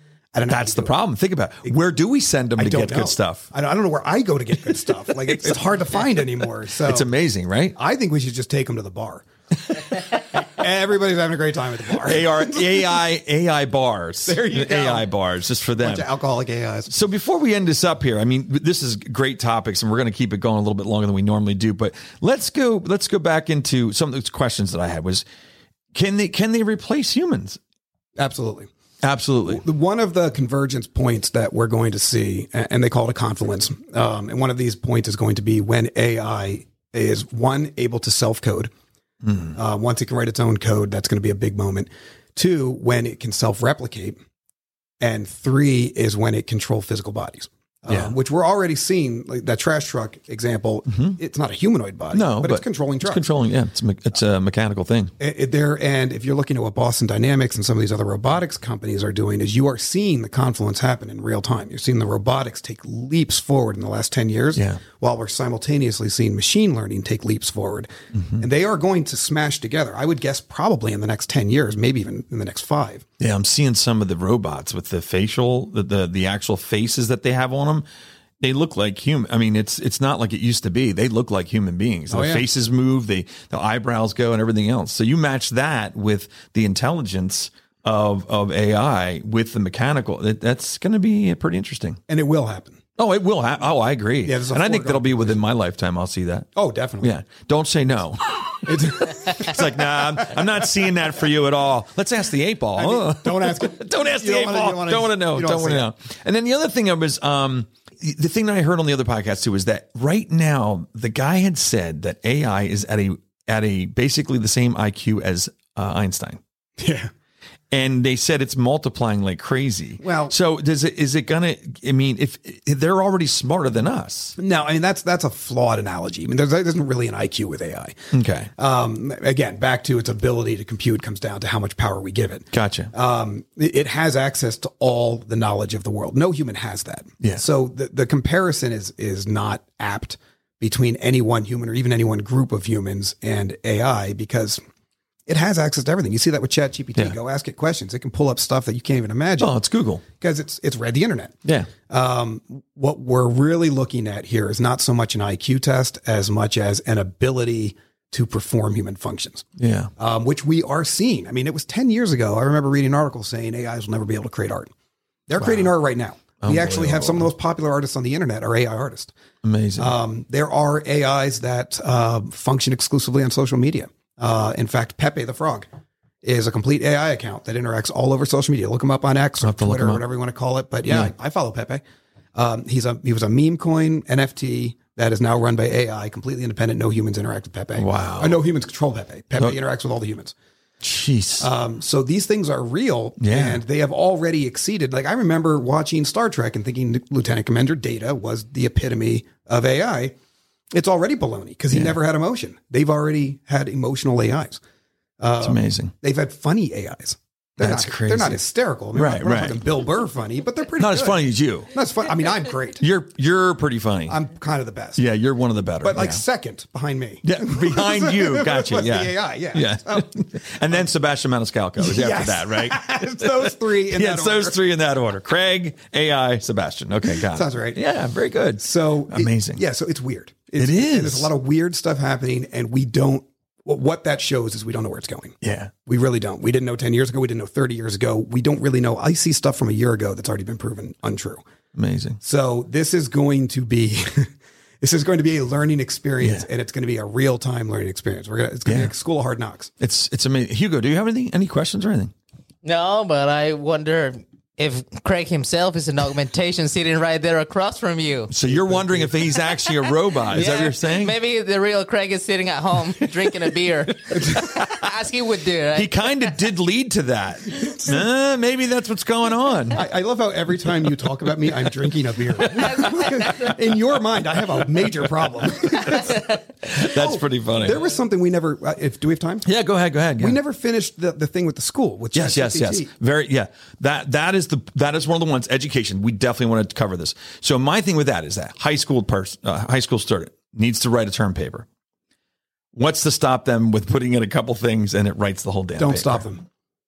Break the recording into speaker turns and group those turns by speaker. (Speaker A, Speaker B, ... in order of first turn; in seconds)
Speaker A: 0.3-0.9, 2.6-7.1, 7.8-12.9, 14.3-15.1, 15.8-16.9, 28.2-28.7, 29.5-38.7, 39.5-44.2, 45.0-53.2, 55.2-73.0, 82.1-82.5, 92.1-92.8, 94.2-95.4, 96.5-97.2, 98.6-100.3, 102.8-105.9, 116.8-117.1, 120.0-120.3, 124.4-128.0, 128.6-144.6, 145.3-159.5, 160.0-164.7, 165.3-169.1, 169.8-175.7, 176.2-181.8, 182.3-190.3, 191.4-200.2, 200.7-204.6, 205.2-212.8, 214.1-215.0, 215.8-220.2, 221.8-224.6, 227.1-227.8, 228.6-241.4, 242.2-249.7, 258.4-259.1, 260.3-260.7, 264.1-264.5, 267.6-268.0, 269.7-279.5, 280.2-282.9, 295.8-296.4
Speaker B: 0.5-3.5, 5.3-5.6, 6.8-7.8, 12.0-16.1, 16.9-25.2, 25.9-27.6, 29.0-29.6, 39.2-39.5, 50.9-51.2, 52.1-55.1, 64.6-64.8, 68.1-68.4, 73.2-77.8, 78.4-92.0, 93.0-96.5, 97.0-116.4, 117.7-124.4, 128.1-128.5, 132.5-132.9, 149.4-150.0, 151.4-151.7, 159.6-159.9, 165.4-165.7, 166.4-167.3, 169.4-169.9, 179.4-180.0, 180.9-181.1, 187.8-188.4, 190.8-191.5, 193.2-193.6, 201.7-202.0, 205.4-205.9, 207.6-208.4, 208.9-209.6, 210.8-211.7, 212.8-214.2, 215.0-216.2, 217.2-229.6, 230.6-231.3, 235.4-235.7, 241.8-242.2, 248.7-248.9, 249.8-252.1, 258.3-261.1, 265.7-269.9, 275.9-277.8, 279.4-280.4, 282.1-291.7, 292.7-296.2
Speaker C: 252.6-258.3, 259.6-266.1